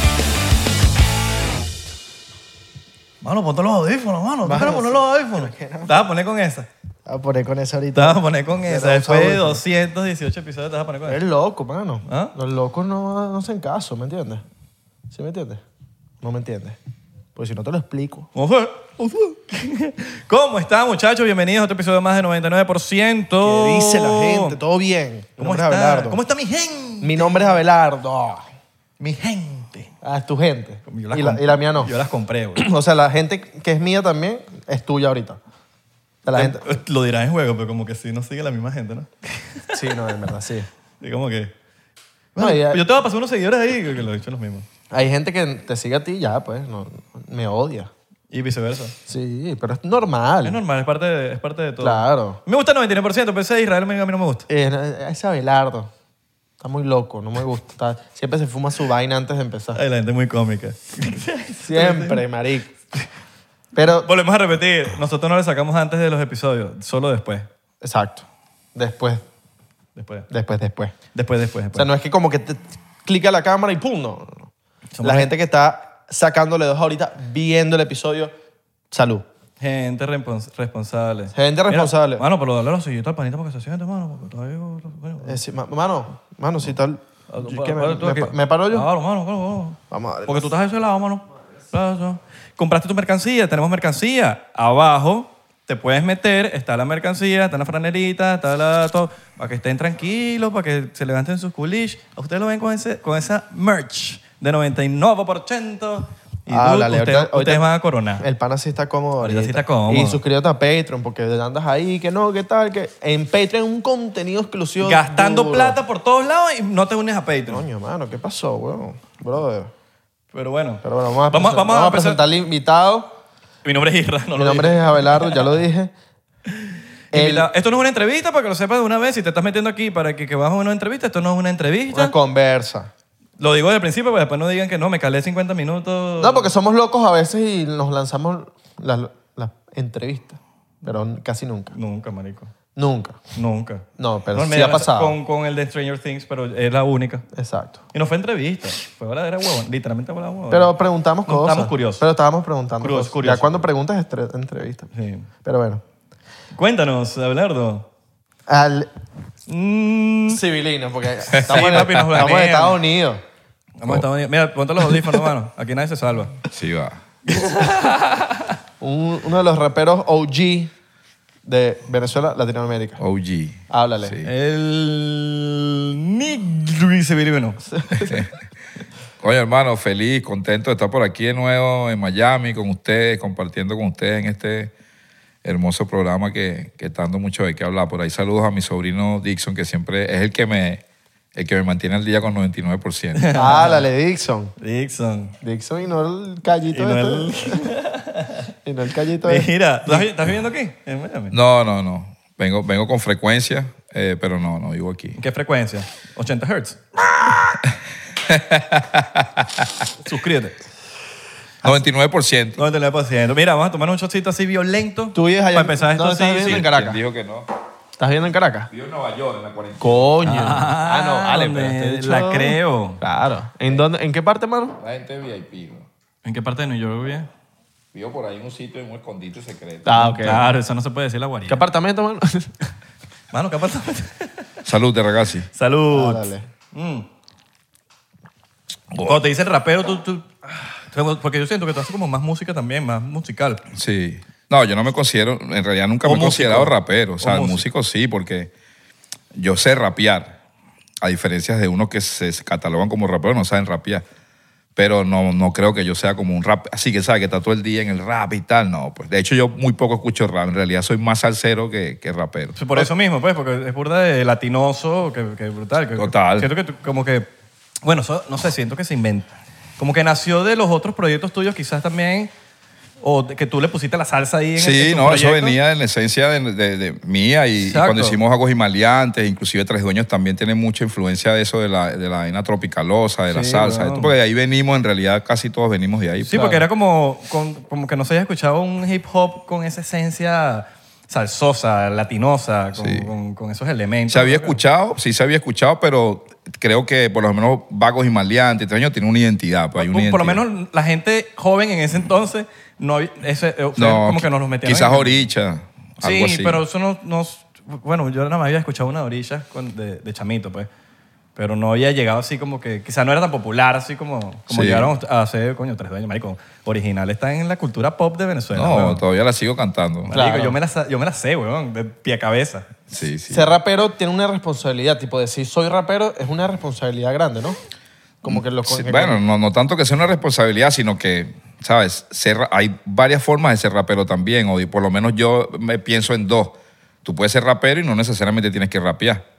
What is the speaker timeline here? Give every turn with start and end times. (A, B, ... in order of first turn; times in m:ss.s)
0:03.2-0:06.7 A
0:04.4-0:06.0 B
0:07.0-0:09.6 B
0:08.0-0:11.2 A
0:11.1-0:14.4 B
0:12.0-0:12.3 A
0:15.1-0:15.6 B
0:16.2-0:16.8 B
0:17.3-0:18.3 B
0:18.3-0:24.6 A
0:23.4-0:26.2 B
0:25.4-0:27.6 A
0:27.0-0:28.4 B
0:29.0-0:29.9 A
0:30.0-0:31.9 B
0:30.9-0:32.6 A
0:32.6-0:35.4 B
0:36.2-0:36.7 B
0:36.3-0:39.8 A
0:39.7-0:40.7 B
0:41.0-0:41.5 A
0:42.3-0:44.7 A
0:42.4-0:42.8 B
0:44.9-0:47.9 B
0:48.3-0:49.0 A
0:49.1-0:50.6 B
0:50.4-0:54.5 A
0:51.8-0:52.4 B
0:54.5-0:55.9 B
0:56.6-0:59.8 B
0:59.7-1:02.2 A
1:01.6-1:02.7 B
1:03.7-1:04.1 B
1:04.0-1:07.5 A
1:07.8-1:09.2 B
1:10.0-1:10.3 A
1:10.3-1:10.9 B
1:11.1-1:11.9 A
1:11.8-1:14.5 B
1:15.0-1:15.3 A
1:15.0-1:18.3 B
1:18.9-1:19.2 B
1:19.6-1:25.4 A
1:21.3-1:22.2 B
1:25.2-1:28.9 B
1:27.3-1:48.2 A
1:29.9-1:30.5 B
1:46.5-1:47.6 B
1:48.2-1:55.8 B
1:49.2-1:50.2 A
1:54.8-1:57.6 A
1:57.5-1:59.7 B
2:00.3-2:02.2 A
2:00.8-2:03.2 B
2:03.6-2:05.4 A
2:04.4-2:05.9 B
2:06.5-2:12.2 A
2:07.1-2:07.5 B
2:11.9-2:12.9 B
2:13.4-2:16.5 A
2:16.2-2:21.8 B
2:21.7-2:22.5 A
2:22.8-2:23.2 B
2:23.4-2:27.2 A
2:24.0-2:25.2 B
2:27.3-2:27.8 B
2:27.9-2:30.7 A
2:30.5-2:34.9 B
2:31.2-2:32.0 A
2:32.8-2:33.7 A
2:34.9-2:35.3 A
2:35.4-2:35.8 B
2:36.5-2:37.8 A
2:38.5-2:38.9 B
2:39.5-2:40.4 A
2:40.3-2:43.2 B
2:41.3-2:42.1 C
2:41.5-2:42.8 A
2:43.8-2:46.4 A
2:46.5-2:47.0 C
2:47.2-2:48.6 A
2:48.8-2:50.7 B
2:51.4-2:53.0 B
2:53.0-2:54.3 C
2:53.7-2:54.2 B
2:54.2-2:57.6 A
2:57.7-2:58.2 B
2:59.2-3:04.7 C
3:05.4-3:10.8 C
3:11.3-3:13.3 C
3:13.2-3:13.8 A
3:13.3-3:14.5 B
3:14.6-3:15.4 A
3:15.4-3:17.7 B
3:16.7-3:18.5 A
3:18.6-3:19.5 B
3:19.2-3:21.4 A
3:21.3-3:25.2 C
3:25.2-3:26.8 A
3:28.3-3:29.7 C
3:30.0-3:30.6 A
3:31.6-3:32.6 C
3:32.6-3:36.7 A
3:35.1-3:37.0 B
3:36.5-3:37.5 C
3:38.0-3:38.7 B
3:38.7-3:40.1 C
3:39.8-3:44.8 B
3:40.2-3:43.0 A
3:44.8-3:45.8 C
3:46.2-3:47.3 A
3:47.9-3:50.0 C
3:49.8-3:50.5 B
3:49.9-3:51.6 A
3:51.5-3:52.5 B
3:53.3-3:54.4 A
3:54.6-3:55.5 C
3:55.5-3:57.1 A
3:55.9-3:56.4 B
3:58.9-3:59.2 C
3:59.0-4:03.6 A
4:03.7-4:08.5 C
4:06.0-4:07.7 A
4:09.3-4:10.4 C
4:11.0-4:14.0 C
4:14.8-4:22.9 C
4:22.6-4:27.3 A
4:26.0-4:26.5 C
4:27.8-4:32.3 A
4:33.0-4:35.6 A
4:34.6-4:46.6 C
4:37.6-4:38.2 A
4:43.3-4:44.1 A
4:46.2-4:54.6 A
4:46.4-4:46.6 B
4:52.8-4:53.1 C
4:54.1-5:00.4 C
4:59.8-5:05.2 A
5:03.8-5:06.6 C
5:06.0-5:10.7 A
5:11.4-5:19.0 A
5:14.5-5:14.9 C
5:18.5-5:20.1 C
5:20.1-5:22.7 A
5:20.1-5:20.6 B
5:22.9-5:23.5 C
5:23.3-5:27.6 B
5:28.2-5:29.2 B
5:28.2-5:39.2 C